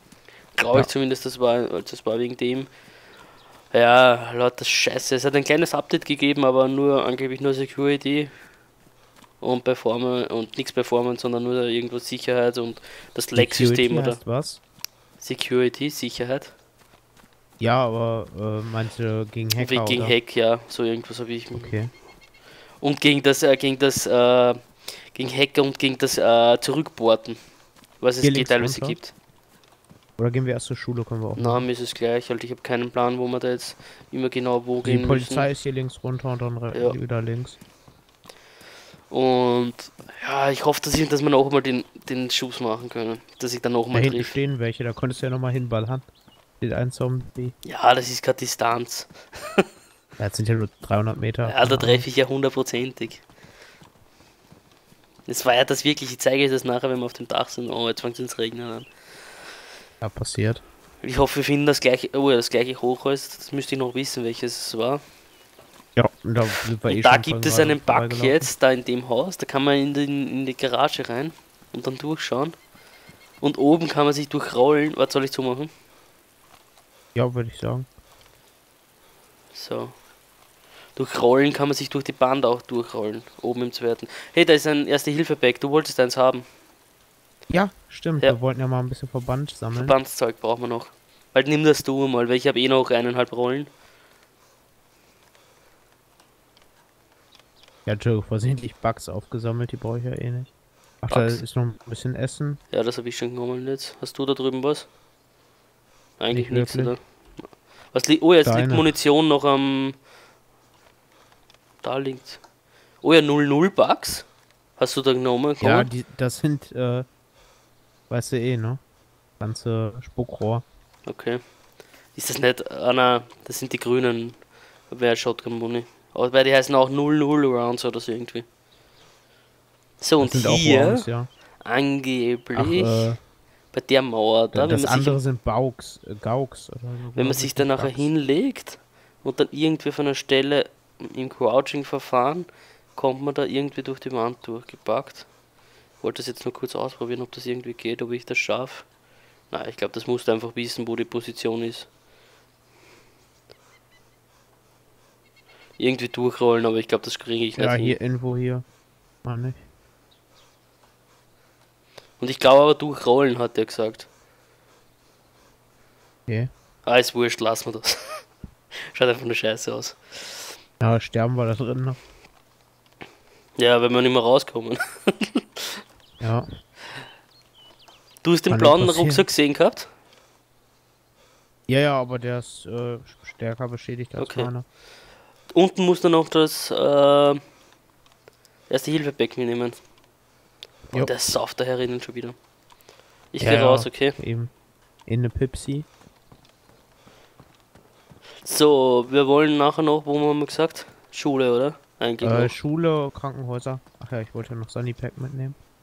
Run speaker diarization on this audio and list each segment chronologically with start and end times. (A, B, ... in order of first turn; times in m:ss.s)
0:00.6-0:02.7 A
0:03.7-0:08.3 A
0:09.4-0:14.2 A
0:13.3-0:14.6 B
0:15.2-0:16.5 A
0:17.6-0:20.2 B
0:19.6-0:21.8 A
0:21.5-0:21.9 B
0:22.8-0:27.4 A
0:28.0-0:29.1 A
0:28.2-0:29.0 B
0:30.2-0:31.6 B
0:31.4-0:35.5 A
0:34.8-0:37.6 B
0:39.1-0:44.4 A
0:43.9-0:46.1 B
0:46.6-0:47.6 B
0:47.6-0:49.6 A
0:50.2-0:52.0 B
0:51.4-0:53.2 A
0:55.3-0:58.9 A
1:00.0-1:00.6 B
1:01.0-1:05.0 A
1:06.0-1:08.5 B
1:06.9-1:12.6 A
1:13.4-1:15.7 A
1:17.2-1:17.9 B
1:19.5-1:20.0 A
1:21.0-1:26.4 A
1:27.5-1:30.0 B
1:29.7-1:33.7 A
1:37.9-1:42.6 B
1:41.1-1:41.4 A
1:42.7-1:44.9 A
1:46.2-1:50.0 A
1:46.3-1:46.9 B
1:48.4-1:48.9 B
1:51.8-1:52.4 A
1:53.0-1:55.9 A
1:55.6-1:57.1 B
1:58.1-1:58.8 B
1:59.4-2:00.6 B
2:01.1-2:01.4 A
2:02.2-2:04.4 A
2:04.9-2:08.5 A
2:10.0-2:11.1 A
2:10.2-2:11.3 B
2:11.6-2:13.1 A
2:12.6-2:13.2 B
2:13.7-2:15.2 A
2:14.5-2:18.1 B
2:17.2-2:25.3 A
2:26.0-2:28.9 A
2:29.5-2:31.9 A
2:35.8-2:38.0 A
2:37.6-2:38.6 B
2:39.2-2:39.6 B
2:42.2-2:44.1 A
2:46.9-2:48.2 A
2:48.9-2:50.4 A
2:50.8-2:52.0 B
2:53.6-2:55.8 A
2:56.2-2:56.5 B
2:58.2-2:59.9 A
2:58.5-2:59.2 B
3:01.7-3:04.6 B
3:04.2-3:04.5 A
3:05.5-3:07.4 A
3:08.7-3:09.8 A
3:10.9-3:12.4 A
3:13.3-3:14.2 A
3:13.4-3:14.5 B
3:15.1-3:15.9 B
3:18.4-3:22.5 A
3:22.2-3:25.6 B